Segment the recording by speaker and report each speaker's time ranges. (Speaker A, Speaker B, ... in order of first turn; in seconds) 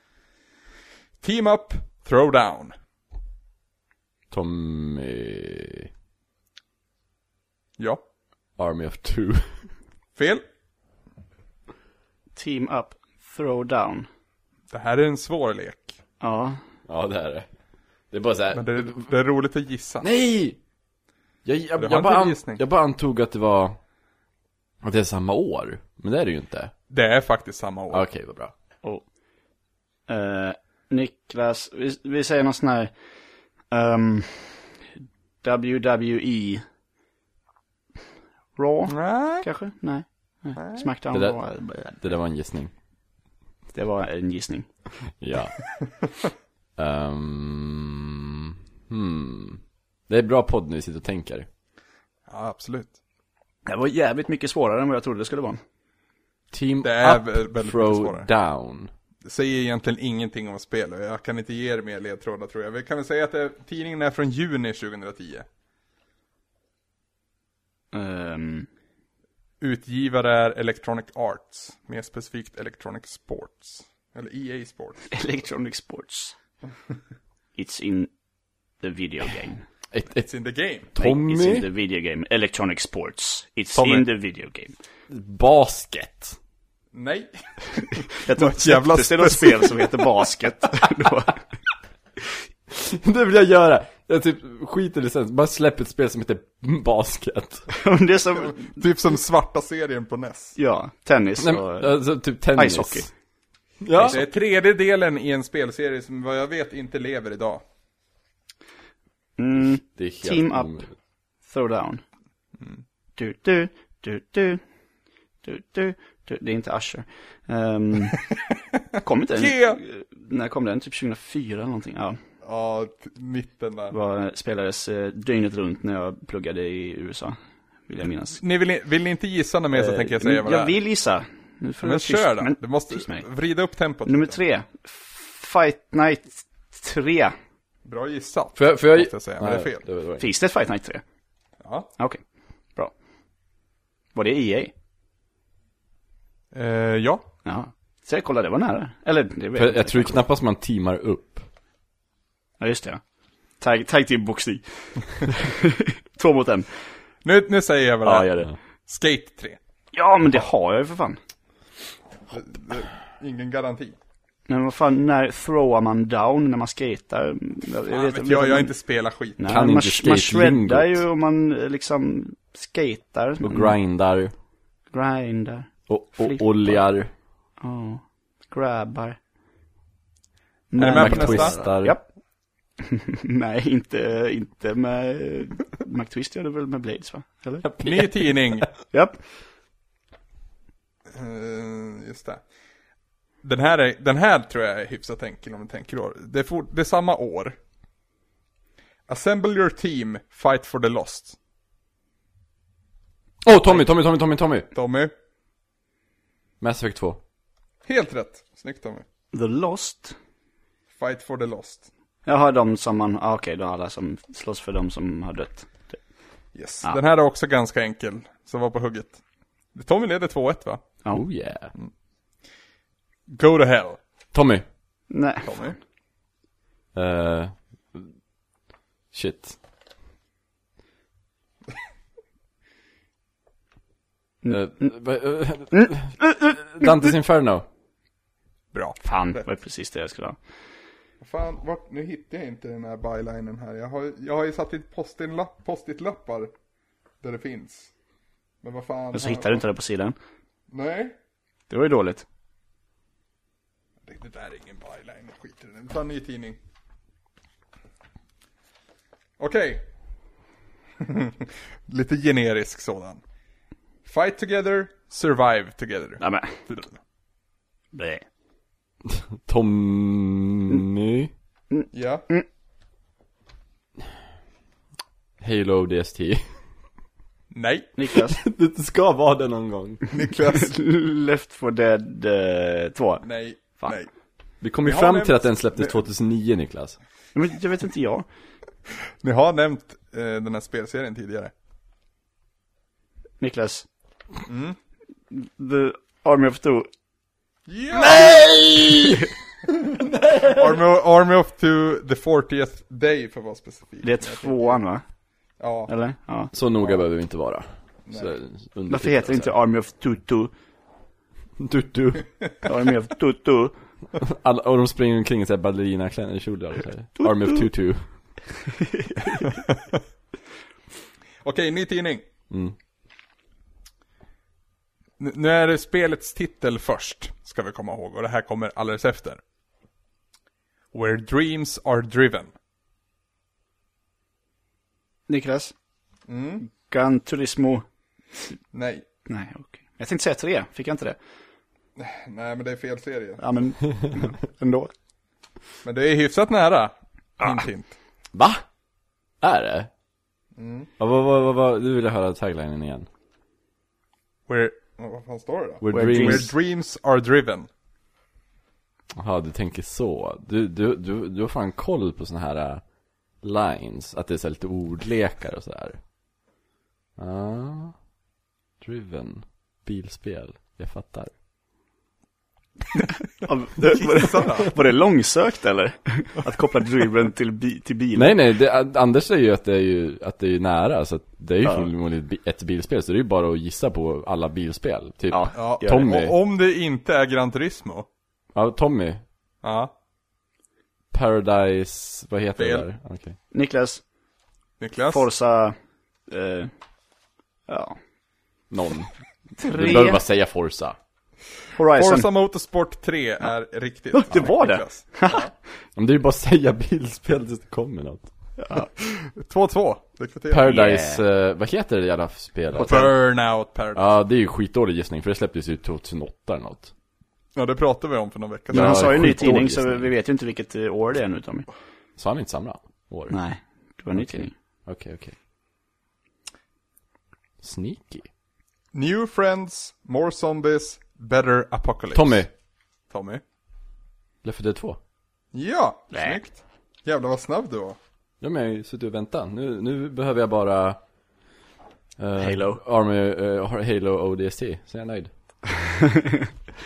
Speaker A: 1.2-2.7, 10.2-10.4, 14.7-16.0, 18.5-20.1, 21.8-22.6, 26.9-28.0, 38.9-39.5, 40.6-40.9, 52.3-53.0, 56.8-58.3, 59.2-65.5, 69.6-75.2, 80.2-80.9, 83.8-84.1, 86.9-89.9, 98.5-100.6, 104.0-107.6, 119.4-119.8, 122.4-124.0, 128.4-130.7, 131.8-134.4, 137.8-139.8, 141.6-141.9, 146.5-147.2, 157.2-159.6, 162.3-164.0, 167.9-169.4, 180.8-181.6, 187.8-188.7, 191.1-192.4, 193.4-197.6, 199.1-201.4, 204.7-205.1, 207.8-209.1, 211.0-211.9, 216.6-219.2, 219.7-220.8, 223.3-224.0, 225.4-225.8, 238.7-239.4, 241.2-246.5, 247.2-247.9, 248.6-249.6, 250.7-251.2, 254.1-256.6, 259.4-259.8, 261.0-263.2, 264.1-267.0, 271.9-272.3, 277.5-277.9, 280.1-280.7, 283.2-284.1, 284.8-286.0, 289.2-291.5, 294.5-294.8, 297.7-298.4, 300.3-304.8, 305.6-305.9, 308.1-308.3, 321.4-322.2, 325.2-329.4, 330.9-332.5, 336.3-336.7, 338.7-339.0, 342.0-343.4, 345.8-347.9, 350.6-350.9, 354.5-357.7, 374.0-374.7, 385.5-388.1, 389.6-389.9, 392.6-392.9, 394.8-395.3, 402.0-405.5, 409.0-410.8, 412.8-414.1, 417.6-419.6, 428.9-432.5, 433.1-433.4, 435.5-438.0
Speaker B: 4.3-5.9, 8.6-9.7, 16.9-17.5, 18.1-19.0, 20.0-20.6, 21.4-23.8, 24.8-26.7, 27.9-28.5, 41.1-42.7, 45.2-45.6, 46.8-51.5, 56.5-58.9, 79.9-80.3, 80.9-81.7, 85.1-86.4, 92.7-97.7, 101.4-103.1, 103.8-104.2, 110.0-110.9, 138.6-140.2, 149.6-151.4, 169.5-171.0, 173.4-174.3, 175.9-177.1, 180.8-182.0, 187.6-188.7, 203.4-204.7, 206.6-207.2, 221.1-221.7, 224.3-224.7, 226.9-228.1, 229.1-229.6, 234.5-237.7, 269.1-271.3, 275.4-276.4, 278.3-280.0, 284.6-287.0, 297.9-300.8, 306.5-309.5, 311.6-312.3, 314.1-318.0, 322.5-322.8, 348.3-348.6, 349.4-349.9, 351.0-353.1, 355.8-356.5, 359.2-362.8, 363.4-366.0, 367.2-368.0, 368.8-371.3, 378.1-386.4, 388.5-389.2, 391.1-393.4, 398.7-401.0, 406.0-408.3, 410.5-413.2, 413.9-416.9, 418.7-420.1, 422.2-423.4, 424.1-425.4, 427.6-428.3, 432.1-432.5, 434.4-435.0, 438.4-441.0, 442.2-445.3
Speaker C: 12.4-14.1, 16.2-16.6, 30.1-32.9, 33.7-34.7, 35.4-36.6, 38.6-42.0, 43.7-44.7, 53.7-55.6, 67.9-68.7, 75.1-76.4, 77.6-78.1, 78.8-79.7, 81.0-84.8, 88.2-91.4, 97.8-98.8, 100.6-102.0, 102.5-103.1, 109.4-110.8, 111.5-112.0, 113.2-114.6, 115.4-118.2, 119.0-122.2, 123.9-127.4, 127.9-128.4, 129.7-133.3, 134.1-137.3, 140.2-141.0, 144.2-144.7, 147.4-150.2, 152.6-153.0, 153.6-156.7, 158.0-158.5, 159.9-161.2, 164.5-168.7, 169.4-173.8, 174.9-176.8, 177.6-179.2, 180.7-182.1, 182.8-187.7, 188.9-189.2, 209.3-210.2, 212.3-216.0, 225.1-225.7, 234.4-234.9, 239.0-240.4, 249.1-250.2, 251.7-252.2, 266.2-266.6, 267.9-268.2, 271.8-272.4, 278.0-278.4, 280.4-283.2, 287.4-288.3, 293.4-293.9, 295.3-296.9, 304.0-305.0, 305.9-306.5, 308.9-310.5, 312.6-313.7, 317.2-317.6, 318.8-319.6, 335.3-335.7, 336.7-337.9, 339.3-341.2, 343.4-344.9, 355.9-356.5, 373.4-378.3, 385.3-386.1, 393.5-394.0, 395.1-395.8, 396.3-396.7, 397.7-398.0, 399.6-400.2, 401.8-402.3, 404.1-405.5, 408.6-408.9, 410.6-411.2, 412.8-413.1, 418.7-421.7, 423.3-424.5, 436.1-436.4, 442.4-442.8, 445.8-446.5